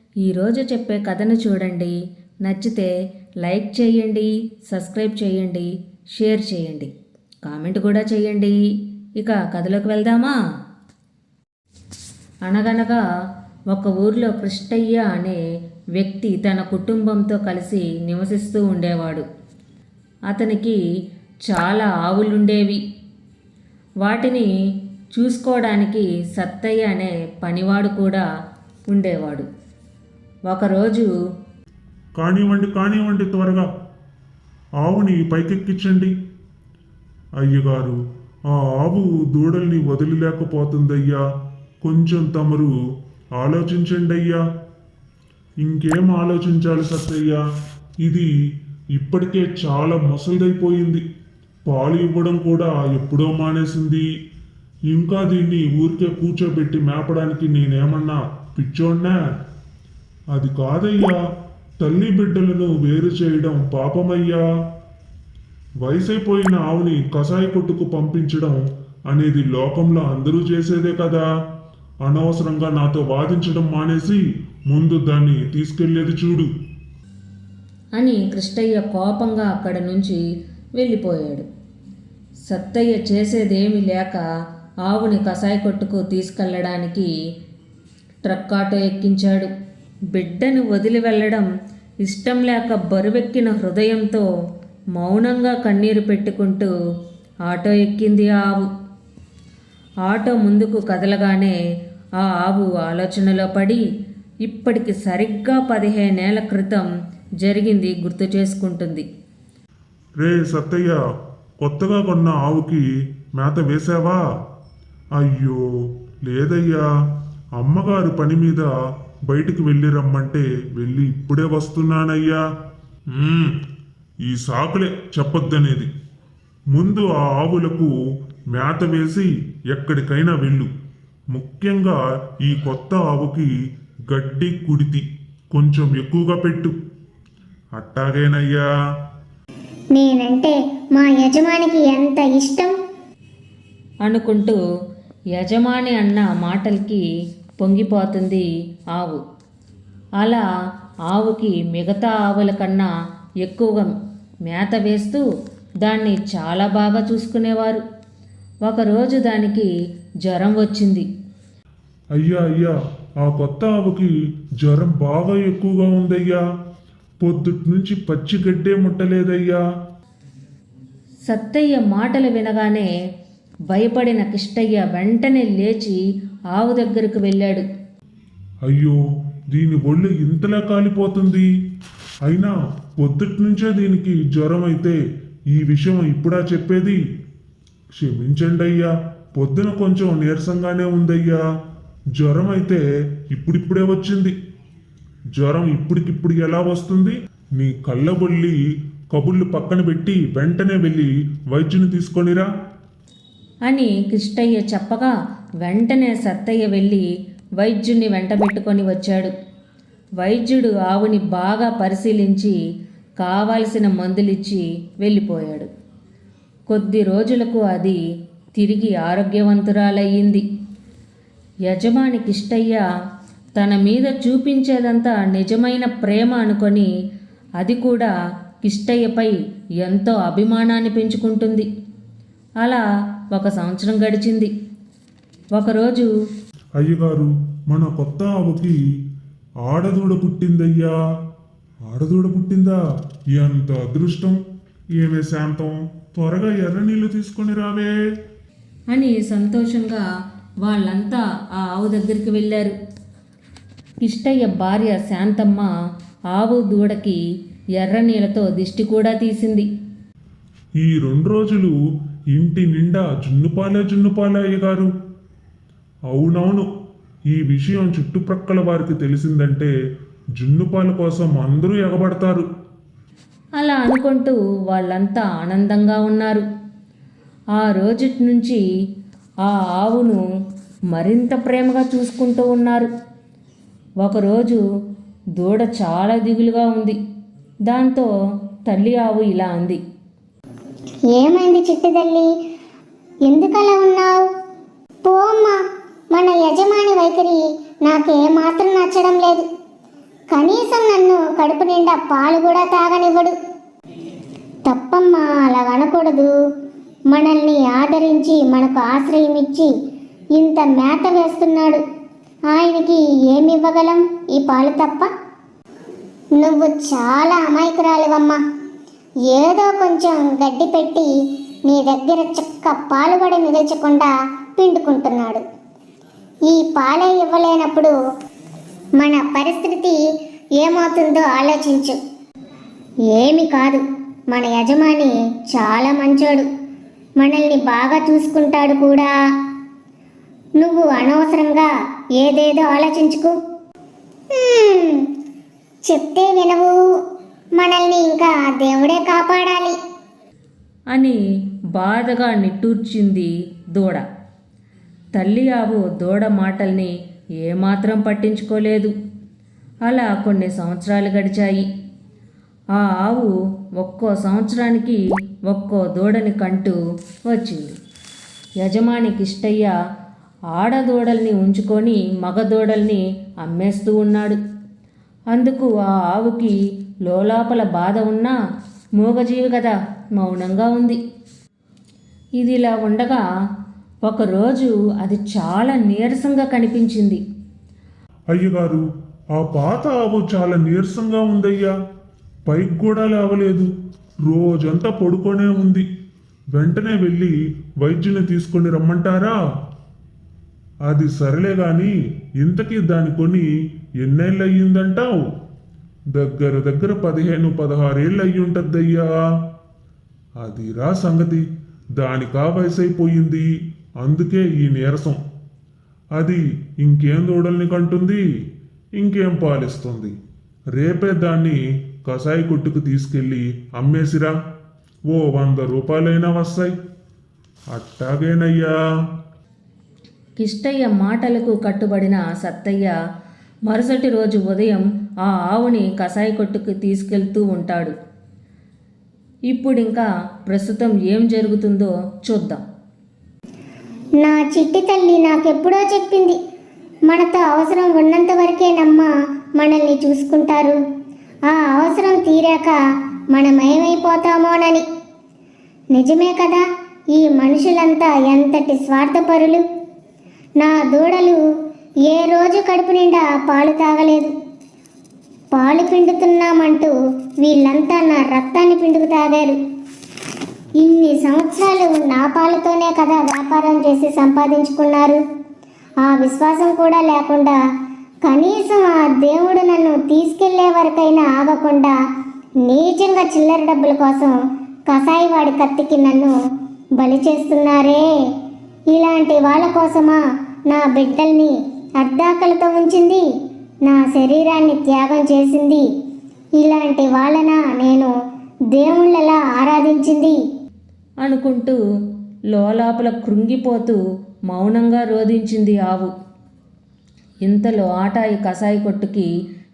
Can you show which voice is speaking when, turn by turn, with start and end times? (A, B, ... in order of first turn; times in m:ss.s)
0:00.2-0:02.9 A
0:03.4-0:06.9 A
0:07.4-0:08.6 A
0:09.2-0:10.4 A
0:12.4-0:13.0 A
0:13.7-0:15.4 A
0:16.0-0:19.2 A
0:20.3-0:20.8 A
0:21.5-0:22.8 A
0:24.0-0:24.5 A
0:25.1-0:28.2 A
0:28.9-0:29.5 A
0:30.5-0:31.1 A
0:32.2-0:33.7 B
0:34.8-0:36.1 B
0:37.4-0:41.2 B
0:41.8-0:42.7 B
0:43.4-0:44.4 B
0:45.6-0:47.4 B
0:48.0-0:48.3 B
0:48.9-0:51.0 B
0:51.7-0:54.0 B
0:54.9-0:59.3 B
1:00.3-1:01.2 B
1:01.8-1:04.4 B
1:05.8-1:11.2 B
1:12.0-1:16.5 B
1:18.0-1:20.2 A
1:20.8-1:21.5 A
1:22.5-1:24.2 A
1:24.9-1:27.1 A
1:28.2-1:29.5 A
1:30.1-1:31.5 A
1:32.0-1:34.3 A
1:35.0-1:36.7 A
1:37.5-1:38.7 A
1:40.1-1:41.5 A
1:42.2-1:43.8 A
1:44.5-1:46.9 A
1:47.4-1:49.0 A
1:50.2-1:51.0 B
1:51.6-1:52.8 B
1:53.3-1:54.2 B
1:55.2-1:55.6 B
1:56.2-1:56.9 B
1:57.6-1:58.7 B
1:59.3-2:02.4 B
2:03.1-2:03.6 B
2:04.2-2:05.9 B
2:06.7-2:07.9 B
2:08.5-2:10.7 B
2:11.3-2:13.5 B
2:14.1-2:16.8 B
2:17.8-2:18.7 B
2:19.9-2:22.7 C
2:24.0-2:24.6 A
2:25.3-2:27.0 A
2:27.6-2:29.2 A
2:31.1-2:32.9 A
2:33.4-2:33.9 A
2:34.5-2:35.2 A
2:35.8-2:37.8 A
2:38.6-2:39.7 A
2:40.2-2:41.1 A
2:42.2-2:46.4 B
2:47.2-2:49.6 B
2:51.3-2:52.9 A
2:53.7-2:56.0 A
2:56.5-2:57.6 A
2:58.6-2:59.0 B
2:59.5-3:01.5 B
3:02.2-3:05.0 B
3:05.5-3:07.0 B
3:07.9-3:11.4 B
3:12.2-3:14.3 B
3:15.4-3:18.6 B
3:19.1-3:22.5 B
3:23.7-3:27.1 A
3:27.6-3:29.3 A
3:30.2-3:32.6 A
3:33.2-3:35.7 A
3:36.7-3:38.0 A
3:38.6-3:40.4 A
3:41.7-3:42.8 A
3:43.6-3:46.9 A
3:47.6-3:48.1 A
3:48.6-3:51.7 A
3:52.6-3:54.5 A
3:55.6-3:56.1 A
3:56.8-3:58.8 B
3:59.6-4:00.9 B
4:01.9-4:02.8 B
4:03.3-4:04.4 B
4:05.0-4:07.9 B
4:08.9-4:10.0 A
4:10.6-4:12.8 A
4:14.0-4:15.7 A
4:16.3-4:17.2 A
4:17.8-4:19.7 A
4:20.8-4:21.7 B
4:22.3-4:24.9 B
4:26.1-4:26.7 B
4:27.3-4:29.7 B
4:30.4-4:32.4 B
4:33.6-4:36.4 A
4:37.6-4:38.6 A
4:39.4-4:40.2 A
4:40.9-4:42.9 A
4:44.0-4:44.6 A
4:45.4-4:47.0 A
4:47.7-4:48.1 A
4:48.7-4:49.8 A
4:51.1-4:52.3 C
4:53.3-4:54.2 C
4:55.0-4:55.6 C
4:56.1-4:59.4 C
5:00.3-5:03.3 C
5:04.6-5:06.3 C
5:07.1-5:09.7 C
5:10.4-5:11.8 C
5:12.5-5:15.1 C
5:16.4-5:18.4 C
5:19.3-5:21.1 C
5:21.7-5:25.4 C
5:26.5-5:27.9 C
5:29.0-5:30.0 C
5:30.6-5:32.0 C
5:33.1-5:36.4 C
5:37.2-5:39.1 C
5:40.6-5:43.3 C
5:44.3-5:45.0 C
5:45.8-5:46.7 C
5:47.6-5:49.8 C
5:50.9-5:51.2 A
5:51.8-5:54.0 A
5:55.1-5:56.9 A
5:57.4-5:58.9 A
5:59.8-6:01.6 A
6:02.7-6:07.8 A
6:08.6-6:09.7 A
6:10.5-6:14.4 A
6:15.3-6:18.3 A
6:19.0-6:21.0 A
6:22.4-6:23.2 A
6:24.0-6:27.2 A
6:28.3-6:28.8 B
6:29.3-6:31.7 B
6:32.5-6:33.7 B
6:34.2-6:35.8 B
6:36.5-6:39.4 B
6:40.8-6:43.5 B
6:44.0-6:45.2 B
6:46.1-6:49.1 B
6:50.4-6:51.4 B
6:52.0-6:53.5 B
6:54.0-6:55.2 B
6:56.2-6:58.2 B
6:59.0-7:00.1 B
7:00.7-7:04.3 B
7:05.1-7:06.7 B
7:07.7-7:08.7 B
7:10.4-7:12.9 A
7:13.7-7:17.9 A
7:19.5-7:22.6 A
7:24.2-7:26.4 C
7:27.1-7:30.8 C
7:31.5-7:32.8 C
7:33.3-7:34.8 C
7:35.9-7:39.6 C
7:40.6-7:41.4 C
7:42.1-7:44.3 C
7:45.5-7:49.6 C
7:50.8-7:55.2 C
7:56.0-7:57.6 C
7:58.2-8:01.9 C
8:02.6-8:04.4 C
8:04.9-8:06.3 C
8:07.0-8:08.0 C
8:08.9-8:13.2 C
8:13.8-8:15.8 C
8:16.6-8:18.1 C
8:18.7-8:20.3 C
8:21.2-8:21.8 A
8:22.5-8:24.0 A
8:24.5-8:26.1 A
8:27.4-8:29.3 A